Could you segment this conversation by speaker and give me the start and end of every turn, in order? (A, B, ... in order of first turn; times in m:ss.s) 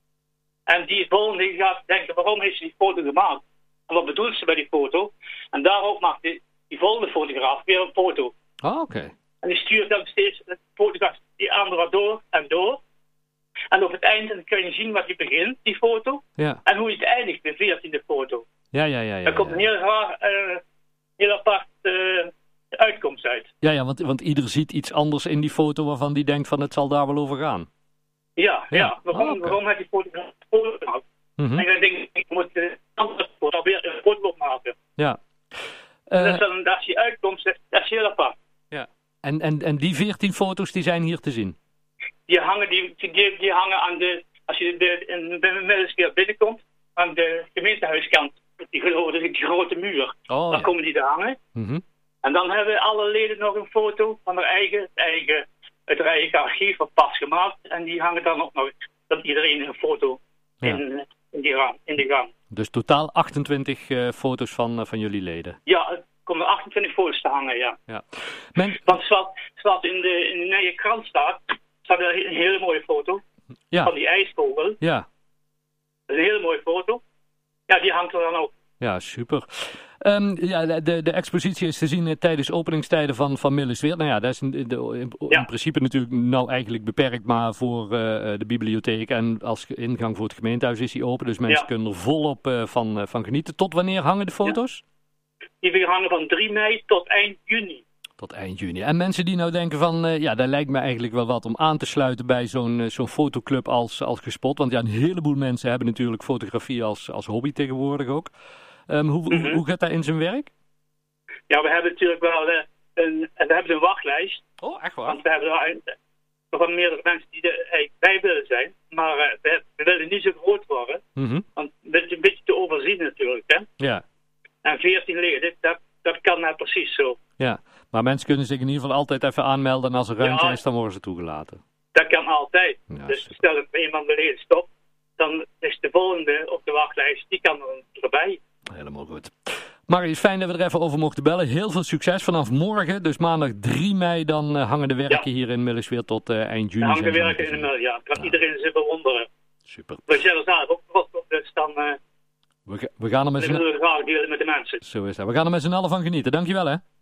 0:00.7-0:08.3 A
0:08.6-0:09.1 B
0:09.4-0:12.8 A
0:13.7-0:18.5 A
0:18.7-0:19.6 B
0:19.2-0:20.6 A
0:21.2-0:23.5 A
0:23.6-0:27.7 B
0:28.4-0:31.0 A
0:28.7-0:29.6 B
0:31.4-0:31.6 B
0:31.6-0:34.8 A
0:36.1-0:36.4 B
0:36.2-0:38.3 A
0:38.7-0:41.6 B
0:42.3-0:51.4 A
0:50.3-0:50.7 B
0:51.5-0:51.8 B
0:52.2-1:02.3 A
1:02.5-1:05.6 B
1:05.6-1:07.8 A
1:07.9-1:08.8 B
1:08.7-1:13.2 A
1:13.8-1:14.8 A
1:14.8-1:15.0 B
1:16.1-1:17.0 A
1:17.7-1:18.5 A
1:18.8-1:34.8 B
1:35.6-1:37.8 A
1:38.2-1:48.3 B
1:48.9-1:50.5 B
1:49.3-1:49.6 A
1:51.5-1:54.4 A
1:54.6-1:55.2 B
1:55.1-1:55.9 A
1:56.5-2:01.0 A
2:01.2-2:01.4 B
2:01.6-2:03.7 A
2:04.6-2:07.2 A
2:07.4-2:11.6 B
2:10.2-2:10.6 A
2:11.9-2:18.4 A
2:12.9-2:13.3 B
2:18.7-2:27.7 B
2:26.8-2:29.3 A
2:29.6-2:30.2 B
2:30.1-2:32.0 A
2:32.6-2:33.6 B
2:33.4-2:34.8 A
2:34.8-2:36.8 B